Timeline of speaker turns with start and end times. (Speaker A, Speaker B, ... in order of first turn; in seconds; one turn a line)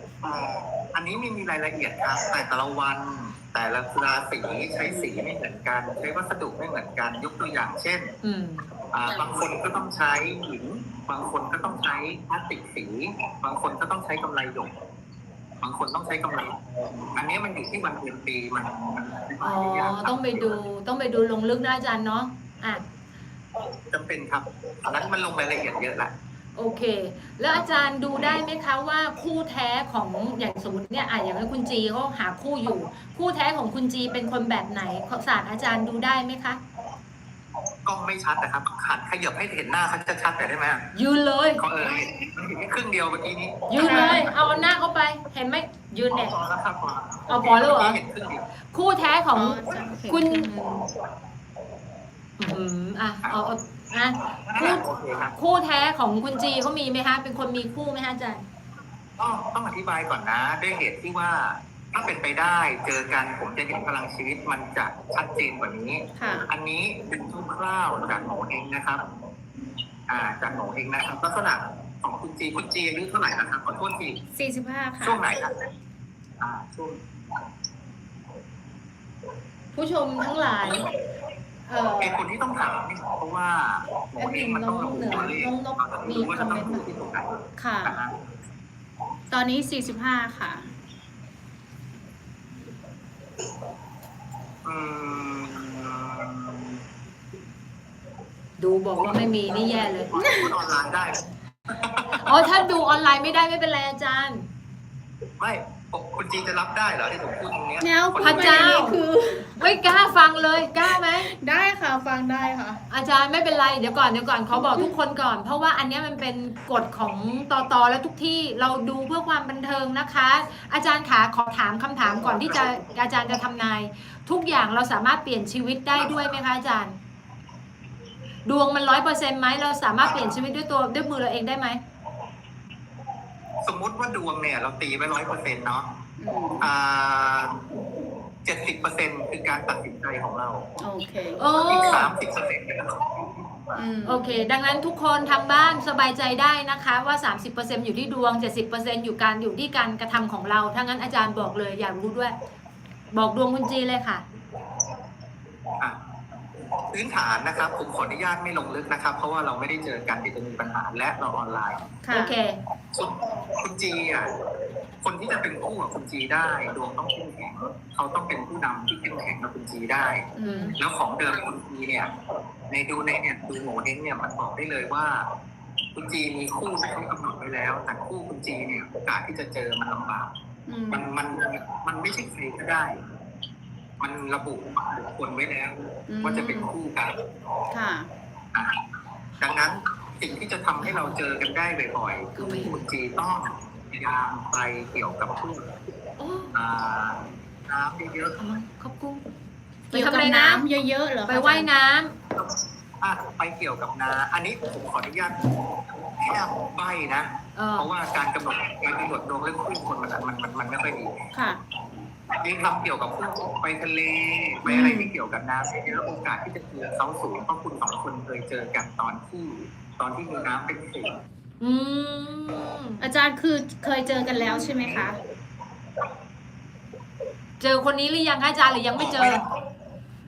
Speaker A: 0.2-8.1
Speaker B: 8.2-8.6
Speaker A: 8.9-14.7
Speaker A: 15.6-20.6
Speaker B: 19.4-22.8
Speaker A: 23.9-26.1
Speaker B: 26.5-36.6
Speaker A: 27.5-28.4
Speaker A: 37.8-40.8
Speaker B: 40.9-41.6
Speaker A: 41.6-44.3
Speaker B: 43.7-46.3
Speaker C: 43.8-44.2
Speaker A: 46.1-48.4
Speaker B: 47.3-48.0
Speaker B: 48.7-50.5
Speaker C: 49.3-50.9
Speaker B: 52.4-58.4
Speaker A: 54.3-55.3
Speaker A: 59.2-69.0
Speaker C: 66.2-66.5
Speaker A: 70.1-74.2
Speaker C: 74.3-75.2
Speaker A: 75.0-75.5
Speaker A: 76.4-77.0
Speaker B: 79.7-80.9
Speaker B: 81.7-82.2
Speaker A: 82.0-88.2
Speaker B: 84.2-86.8
Speaker C: 87.6-88.0
Speaker C: 89.3-90.7
Speaker A: 94.6-96.8
Speaker B: 98.6-100.1
Speaker A: 99.6-102.5
Speaker C: 100.1-100.5
Speaker B: 102.1-104.5
Speaker A: 105.4-108.8
Speaker C: 107.8-110.0
Speaker B: 108.2-109.0
Speaker B: 109.6-111.3
Speaker C: 110.7-112.8
Speaker B: 112.9-127.0
Speaker C: 114.5-114.9
Speaker A: 122.2-122.7
Speaker B: 128.4-131.8
Speaker A: 133.6-135.9
Speaker C: 136.2-136.7
Speaker A: 136.6-137.6
Speaker A: 138.4-140.7
Speaker C: 140.8-141.5
Speaker B: 141.4-142.1
Speaker A: 141.6-143.9
Speaker C: 143.8-144.3
Speaker B: 144.0-152.3
Speaker B: 153.1-154.2
Speaker A: 156.9-161.8
Speaker C: 162.0-162.3
Speaker B: 162.1-162.6
Speaker A: 162.9-164.3
Speaker A: 165.0-170.2
Speaker C: 170.3-170.8
Speaker B: 170.4-170.8
Speaker A: 170.8-172.1
Speaker A: 172.7-175.3
Speaker A: 175.9-180.3
Speaker C: 180.7-181.1
Speaker A: 180.9-183.0
Speaker A: 184.0-187.1
Speaker C: 186.1-186.7
Speaker C: 187.7-188.1
Speaker A: 189.4-195.7
Speaker C: 192.4-192.8
Speaker B: 196.2-196.5
Speaker A: 196.5-198.4
Speaker B: 198.4-199.2
Speaker C: 199.9-201.7
Speaker B: 199.9-200.6
Speaker B: 201.3-202.1
Speaker A: 202.4-211.1
Speaker B: 207.5-207.9
Speaker C: 211.3-211.6
Speaker A: 212.3-221.2
Speaker C: 214.6-215.1
Speaker B: 221.6-223.0
Speaker C: 223.0-225.2
Speaker A: 224.3-225.1
Speaker B: 227.6-229.4
Speaker A: 228.9-229.4